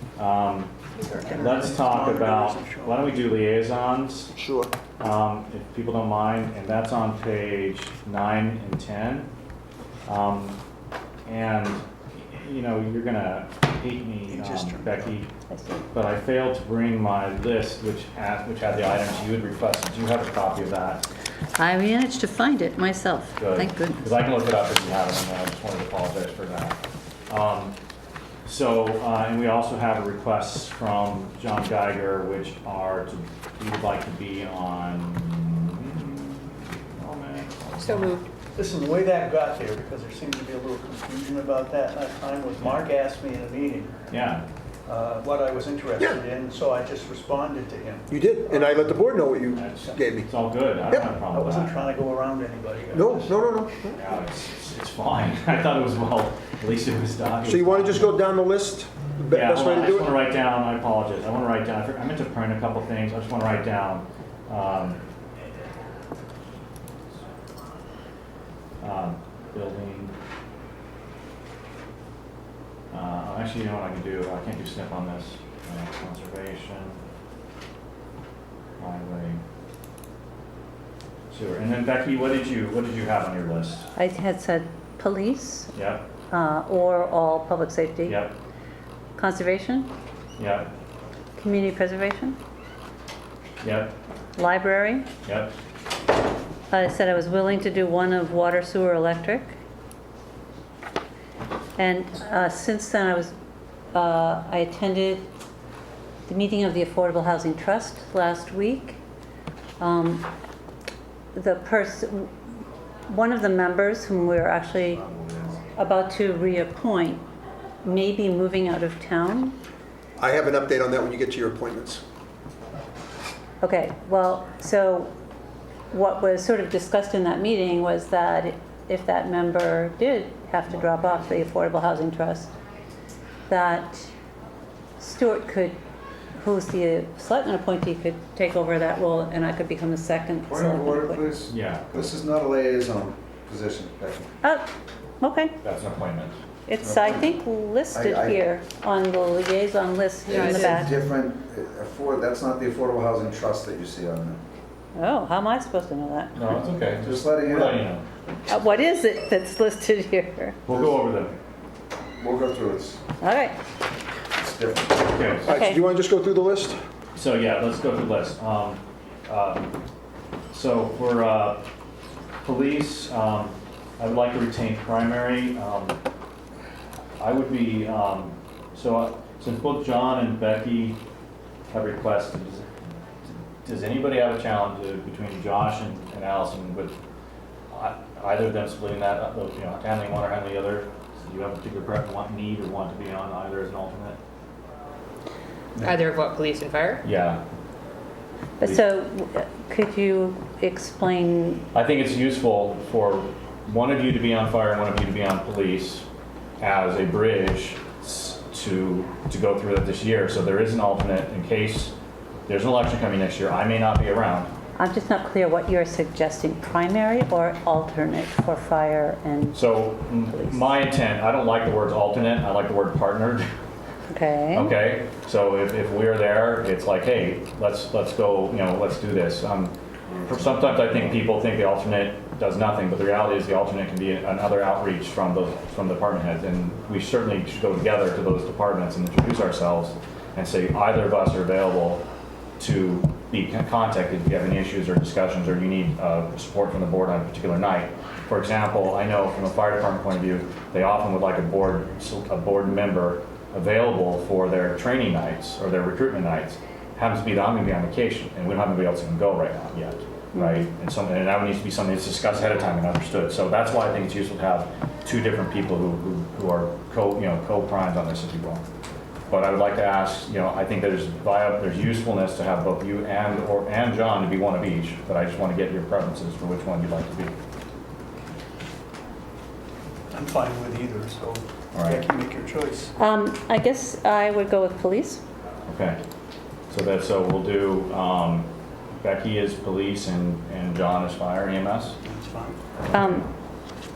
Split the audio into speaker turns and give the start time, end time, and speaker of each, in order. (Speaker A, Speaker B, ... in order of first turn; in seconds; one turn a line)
Speaker A: 0.2-0.7
Speaker B: 1.0-3.1
Speaker A: 1.3-4.3
Speaker C: 4.4-4.7
Speaker A: 5.0-9.3
Speaker A: 10.1-10.6
Speaker A: 11.2-15.3
Speaker B: 14.3-15.2
Speaker D: 15.5-15.8
Speaker A: 15.9-21.1
Speaker D: 21.6-24.0
Speaker A: 23.4-26.8
Speaker A: 27.3-27.8
Speaker A: 28.4-38.2
Speaker E: 37.8-38.3
Speaker B: 38.5-44.0
Speaker A: 44.1-44.5
Speaker B: 44.9-48.9
Speaker C: 48.1-50.3
Speaker A: 49.5-51.8
Speaker C: 50.9-51.3
Speaker B: 51.3-53.4
Speaker C: 52.9-54.0
Speaker A: 53.9-58.2
Speaker C: 57.4-60.2
Speaker A: 59.3-65.0
Speaker A: 68.8-70.1
Speaker A: 72.9-77.0
Speaker A: 78.8-79.4
Speaker A: 81.3-83.9
Speaker D: 84.0-85.7
Speaker A: 85.7-86.0
Speaker D: 86.3-88.2
Speaker A: 88.0-88.3
Speaker D: 89.2-89.9
Speaker A: 90.4-90.7
Speaker D: 91.4-92.4
Speaker A: 93.6-94.0
Speaker D: 94.3-95.1
Speaker A: 95.2-95.5
Speaker D: 96.7-99.5
Speaker D: 101.8-103.3
Speaker D: 103.9-105.2
Speaker D: 106.3-109.0
Speaker D: 109.8-110.3
Speaker D: 111.3-112.3
Speaker D: 113.1-115.0
Speaker F: 114.9-115.6
Speaker D: 115.8-117.2
Speaker D: 117.8-119.5
Speaker C: 120.2-122.0
Speaker D: 123.6-125.1
Speaker D: 125.9-132.5
Speaker D: 133.5-134.1
Speaker D: 135.0-135.8
Speaker D: 136.3-141.3
Speaker F: 140.5-144.3
Speaker A: 141.5-141.9
Speaker D: 144.4-144.7
Speaker D: 145.2-145.6
Speaker A: 145.6-146.4
Speaker D: 146.7-150.9
Speaker F: 146.8-147.3
Speaker F: 147.9-148.4
Speaker F: 150.3-154.4
Speaker E: 150.3-150.8
Speaker D: 154.9-156.3
Speaker A: 156.3-158.0
Speaker F: 156.9-157.9
Speaker D: 158.5-160.6
Speaker A: 160.7-161.3
Speaker F: 160.7-160.9
Speaker F: 162.2-163.0
Speaker D: 163.2-163.6
Speaker F: 164.4-165.3
Speaker A: 165.0-165.5
Speaker C: 165.4-166.8
Speaker D: 165.5-165.8
Speaker A: 167.1-169.7
Speaker A: 170.5-171.7
Speaker A: 172.4-176.0
Speaker A: 177.2-181.0
Speaker A: 181.7-182.7
Speaker A: 183.2-186.9
Speaker A: 187.7-194.2
Speaker E: 195.8-197.0
Speaker A: 197.0-197.4
Speaker D: 198.6-201.7
Speaker A: 201.7-206.1
Speaker A: 206.6-211.9
Speaker A: 212.5-214.5
Speaker D: 214.8-220.6
Speaker A: 219.5-223.5
Speaker D: 224.1-224.7
Speaker A: 224.5-229.7
Speaker A: 230.2-242.0
Speaker A: 242.6-268.6
Speaker D: 260.3-260.6
Speaker A: 269.3-277.3
Speaker B: 280.1-282.9
Speaker A: 281.7-282.0
Speaker D: 283.0-285.2
Speaker A: 285.7-286.0
Speaker A: 286.7-292.0
Speaker B: 292.0-292.6
Speaker D: 292.9-293.3
Speaker A: 292.9-293.2